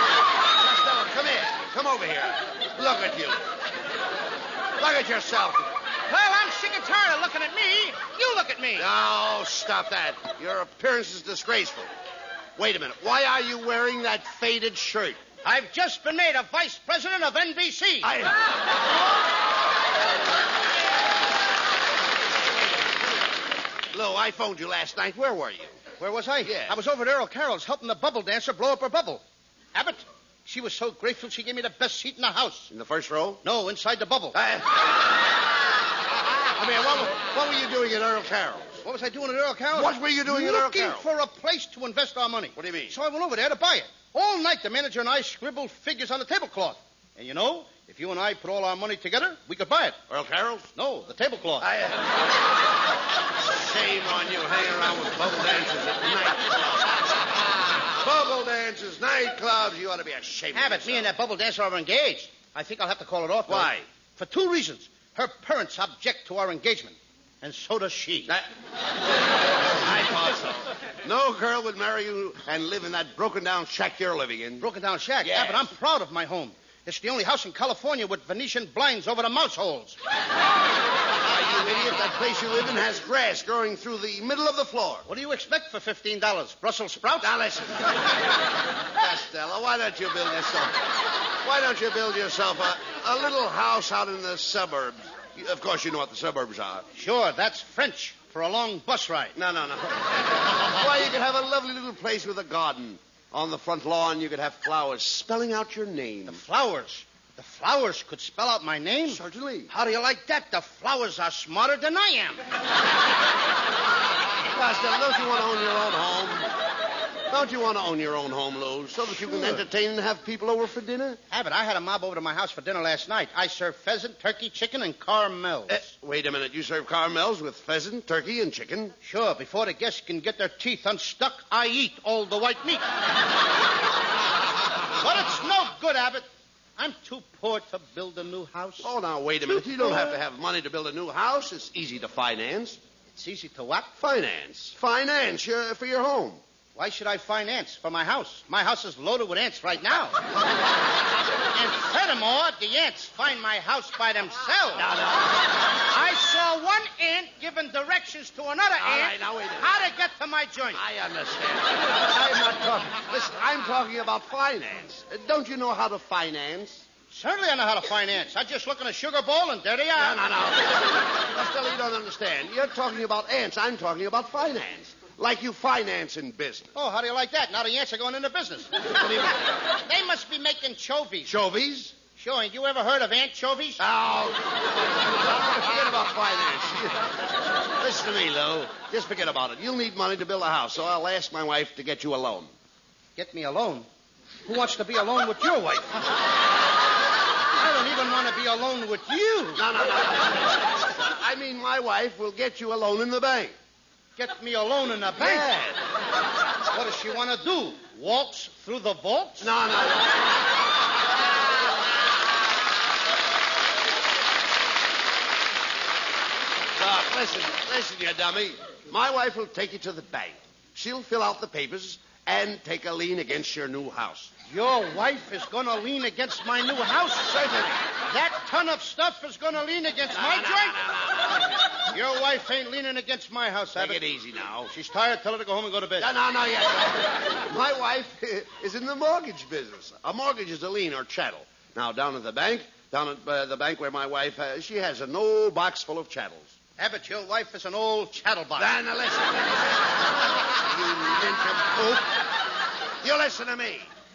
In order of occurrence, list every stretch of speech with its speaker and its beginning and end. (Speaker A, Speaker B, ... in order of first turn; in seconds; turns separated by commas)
Speaker A: 0.5-3.4, Speaker A: 4.8-5.7, Speaker B: 6.1-8.9, Speaker A: 8.8-11.9, Speaker A: 12.6-15.2, Speaker B: 15.4-18.1, Speaker A: 18.0-18.4, Speaker A: 23.9-25.8, Speaker B: 26.0-29.2, Speaker A: 26.5-26.7, Speaker B: 29.7-32.7, Speaker A: 32.7-33.4, Speaker B: 33.4-34.4, Speaker A: 34.3-34.9, Speaker A: 36.6-38.8, Speaker B: 38.8-50.0, Speaker A: 39.7-41.1, Speaker A: 42.5-42.9, Speaker A: 50.1-50.7, Speaker B: 50.8-51.7, Speaker A: 51.6-52.2, Speaker A: 53.5-57.0, Speaker A: 58.0-61.1, Speaker B: 60.5-68.3, Speaker A: 63.5-63.9, Speaker A: 69.8-74.6, Speaker B: 74.6-80.0, Speaker A: 75.2-75.6, Speaker A: 81.2-85.1, Speaker B: 85.1-87.3, Speaker A: 87.2-88.0, Speaker A: 89.0-90.9, Speaker A: 91.4-96.9, Speaker B: 97.0-99.4, Speaker A: 99.3-106.4, Speaker B: 106.3-112.4, Speaker A: 109.1-109.7, Speaker A: 114.5-116.5, Speaker A: 117.3-121.2, Speaker B: 119.2-119.7, Speaker B: 121.3-125.9, Speaker A: 125.7-128.9, Speaker B: 129.0-132.8, Speaker B: 135.0-138.9, Speaker A: 138.8-142.8, Speaker B: 143.1-143.9, Speaker A: 144.0-146.4, Speaker B: 146.8-150.2, Speaker B: 151.5-154.9, Speaker A: 154.8-155.4, Speaker B: 155.9-160.8, Speaker A: 158.8-159.7, Speaker A: 160.7-166.8, Speaker B: 167.1-170.2, Speaker A: 170.0-176.7, Speaker B: 176.8-181.3, Speaker A: 181.3-181.9, Speaker B: 182.2-183.8, Speaker A: 183.8-187.1, Speaker A: 187.8-192.5, Speaker B: 193.2-193.9, Speaker B: 194.5-196.1, Speaker B: 197.6-199.6, Speaker A: 199.6-203.5, Speaker B: 204.2-205.5, Speaker A: 205.2-205.8, Speaker B: 206.7-209.5, Speaker A: 209.4-210.2, Speaker A: 216.8-224.3, Speaker B: 224.5-227.4, Speaker A: 227.3-227.8, Speaker B: 228.1-230.8, Speaker A: 230.1-231.7, Speaker B: 231.9-234.0, Speaker A: 233.8-234.7, Speaker B: 234.7-236.1, Speaker A: 236.0-246.5, Speaker B: 246.8-248.8, Speaker A: 248.6-249.7, Speaker A: 250.7-252.1, Speaker A: 253.0-253.9